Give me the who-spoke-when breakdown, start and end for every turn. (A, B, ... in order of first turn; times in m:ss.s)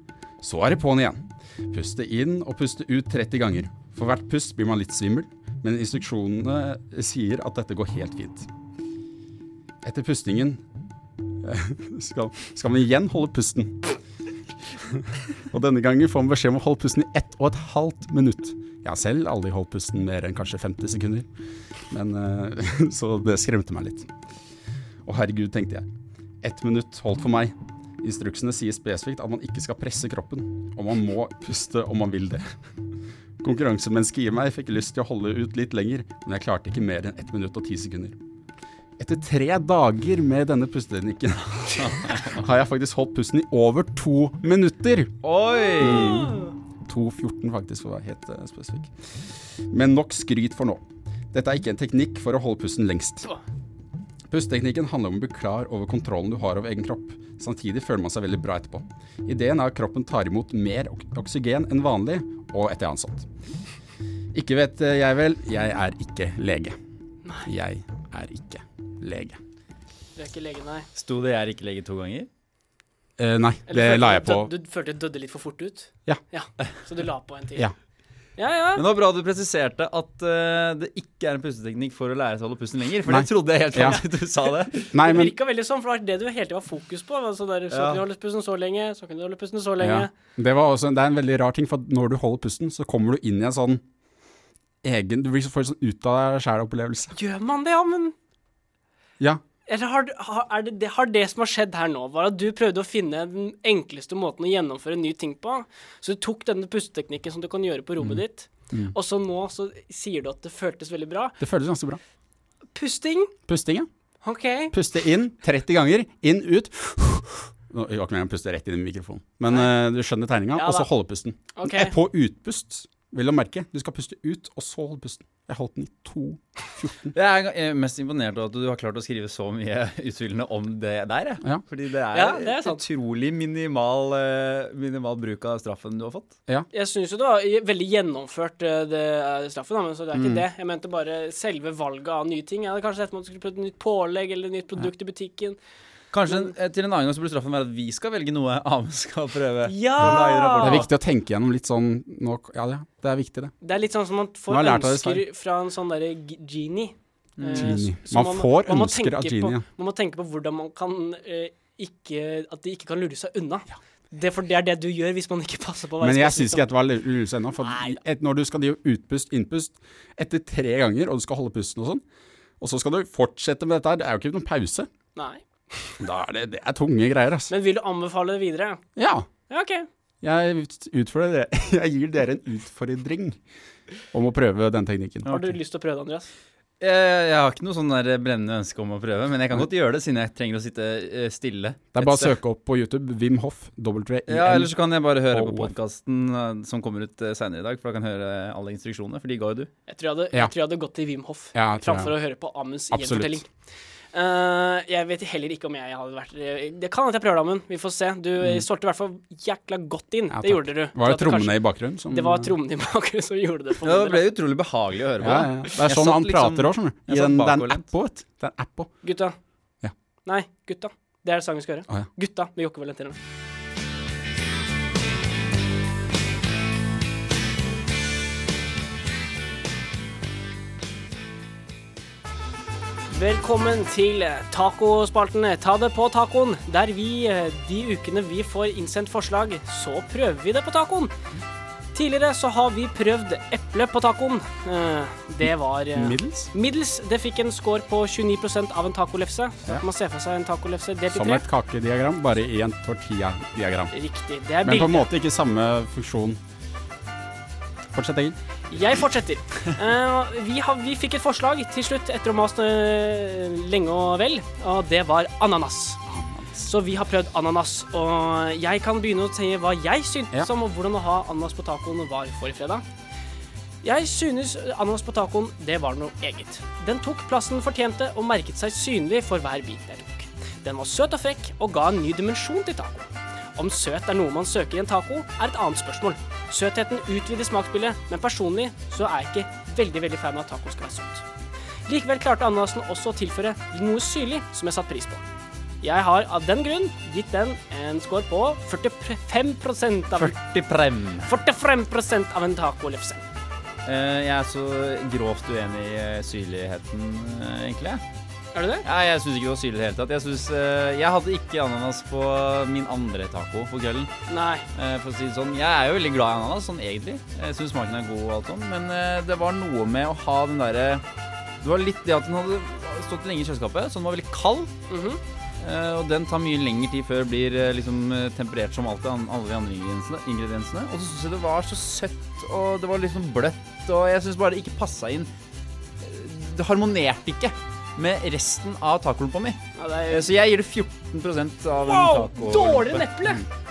0:00.4-0:08.5 A
0:09.8-0:10.6 A
0:11.4-0:14.0 A
0:14.8-0:21.3 A
0:21.9-0:24.1 A
0:25.0-0:25.9 A
0:26.4-0:32.4 A
0:33.4-0:38.2 A
0:39.0-0:45.1 A
0:41.8-0:42.4 B
0:45.2-0:46.4 B
0:45.8-0:53.3 A
0:54.3-1:03.3 A
1:04.3-1:06.8 A
1:07.4-1:09.4 A
1:10.2-1:10.9 C
1:11.0-1:12.3 B
1:13.2-1:14.5 A
1:13.7-1:17.7 C
1:18.4-1:18.8 C
1:18.7-1:24.9 B
1:23.1-1:24.0 A
1:24.8-1:30.1 C
1:24.9-1:25.3 A
1:27.7-1:28.0 B
1:29.8-1:33.8 A
1:34.8-1:37.1 A
1:37.1-1:38.1 C
1:39.7-1:51.4 C
1:51.4-1:52.0 A
1:52.7-1:53.3 C
1:53.5-1:53.9 A
1:54.2-1:54.7 C
1:54.7-2:07.1 A
2:00.5-2:00.9 C
2:01.5-2:01.9 C
2:07.1-2:16.3 B
2:12.1-2:12.8 C
2:16.7-2:25.6 C
2:20.1-2:20.4 A
2:26.1-2:30.9 B
2:29.6-2:30.8 C
2:30.6-2:33.5 A
2:33.6-2:46.7 C
2:34.5-2:35.2 A
2:37.4-2:37.8 B
2:37.5-2:39.6 A
2:46.0-2:52.0 A
2:47.6-2:48.0 C
2:52.6-2:54.9 A
2:55.2-2:56.0 C
2:56.0-2:57.5 A
2:57.5-2:58.8 C
2:59.0-2:59.3 A
2:59.5-2:59.9 C
3:00.2-3:03.4 A
3:04.1-3:05.4 A
3:05.2-3:06.3 C
3:06.8-3:12.3 B
3:11.9-3:14.7 A
3:14.3-3:19.7 B
3:15.3-3:15.7 A
3:19.9-3:23.5 C
3:21.5-3:22.1 A
3:22.9-3:23.4 A
3:24.1-3:34.2 C
3:30.3-3:32.5 A
3:33.8-3:37.8 B
3:35.2-3:38.9 A
3:39.0-3:39.4 C
3:40.2-3:43.2 C
3:53.1-4:01.1 C
4:01.9-4:11.4 C
4:05.9-4:06.5 A
4:11.1-4:13.9 A
4:13.9-4:15.1 C
4:14.6-4:16.4 A
4:17.9-4:18.4 A
4:18.7-4:26.0 C
4:26.0-4:26.7 A
4:26.6-4:32.8 C
4:33.8-4:51.2 C
4:51.9-4:55.2 C
4:55.8-5:00.3 C
5:00.2-5:01.3 B
5:01.2-5:03.2 C
5:03.8-5:08.0 B
5:08.5-5:08.8 C
5:08.8-5:14.1 B
5:14.3-5:14.6 C
5:14.7-5:21.0 B
5:21.6-5:24.7 B
5:24.9-5:25.2 C
5:25.6-5:35.3 B
5:36.0-5:43.1 B
5:39.8-5:40.3 C
5:41.8-5:43.4 C